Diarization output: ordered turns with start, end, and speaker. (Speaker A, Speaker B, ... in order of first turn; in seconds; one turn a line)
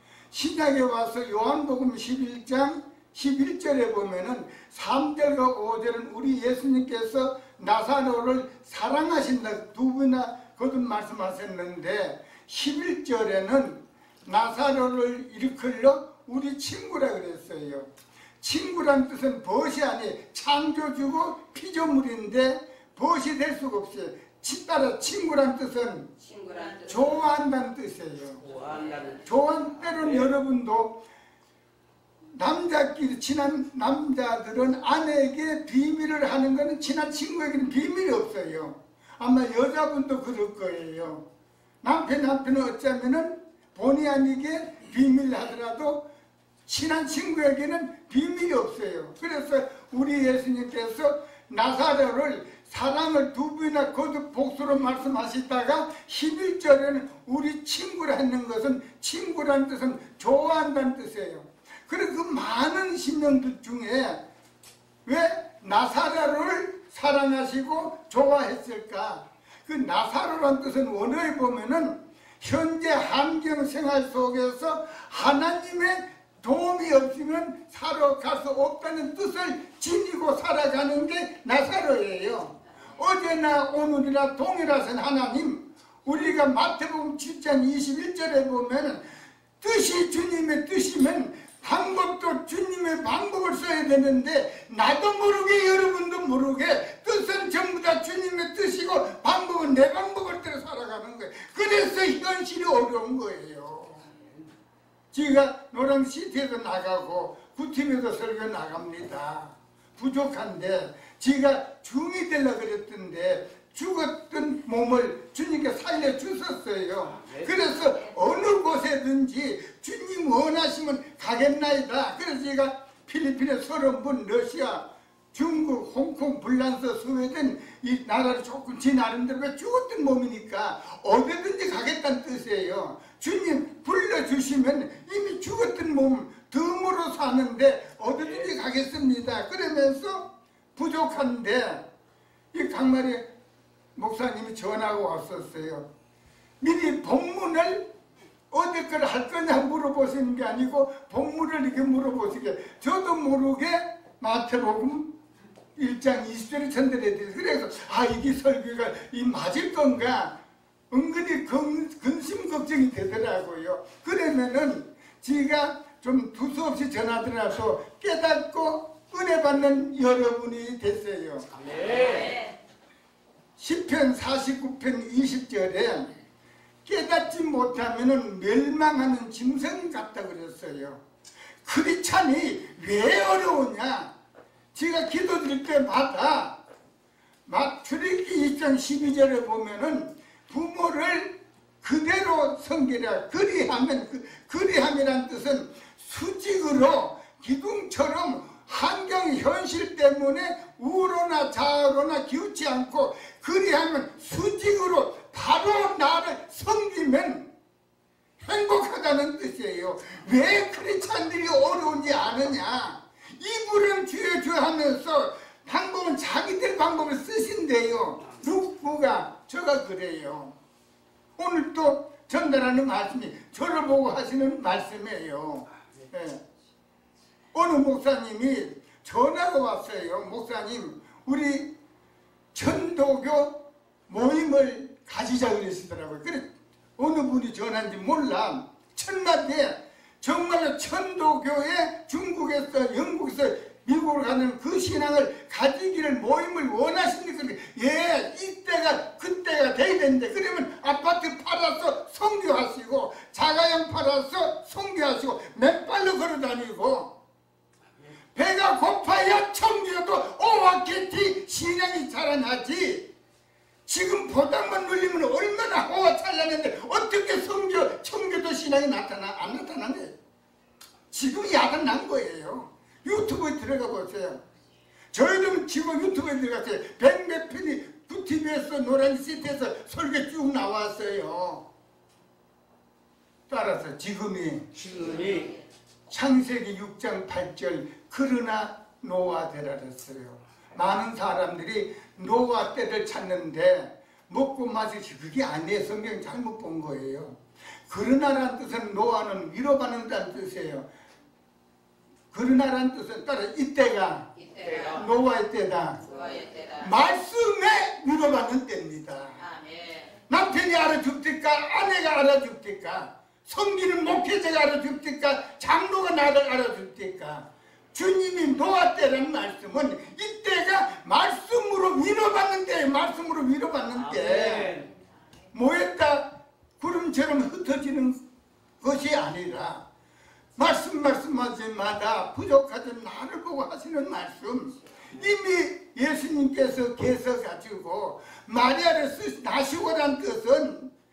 Speaker A: 0.3-17.9
Speaker A: 18.4-26.1
Speaker B: 26.2-27.2
Speaker A: 26.9-28.5
Speaker C: 28.4-29.3
Speaker A: 29.2-31.0
Speaker C: 30.0-30.3
Speaker A: 32.4-41.2
Speaker A: 41.8-46.0
Speaker A: 46.7-64.2
Speaker A: 65.0-89.0
Speaker A: 89.6-104.1
Speaker A: 105.1-141.8
Speaker C: 117.2-117.7
Speaker C: 138.2-138.5
Speaker A: 142.5-143.3
Speaker A: 144.0-145.9
Speaker A: 146.6-147.9
Speaker A: 148.5-155.1
Speaker A: 155.8-160.3
Speaker A: 160.9-171.5
Speaker C: 171.5-172.4
Speaker A: 173.6-176.1
Speaker A: 176.8-181.0
Speaker A: 181.7-184.1
Speaker A: 184.7-186.6
Speaker A: 187.5-207.5
Speaker A: 208.4-220.6
Speaker A: 221.4-226.4
Speaker A: 227.5-231.7
Speaker A: 232.5-233.6
Speaker A: 234.1-257.1
Speaker A: 258.4-263.1
Speaker A: 263.9-270.1
Speaker A: 271.1-274.4
Speaker A: 275.1-281.6
Speaker A: 283.5-284.7
Speaker C: 284.7-285.6
Speaker A: 286.1-300.9
Speaker A: 302.3-304.3
Speaker B: 304.4-305.0
Speaker C: 304.6-305.0
Speaker A: 305.0-306.1
Speaker B: 306.1-306.9
Speaker A: 306.8-309.4
Speaker B: 309.4-310.2
Speaker A: 310.3-324.7
Speaker C: 323.9-324.9
Speaker A: 325.5-328.2
Speaker A: 328.8-329.8
Speaker A: 330.6-340.9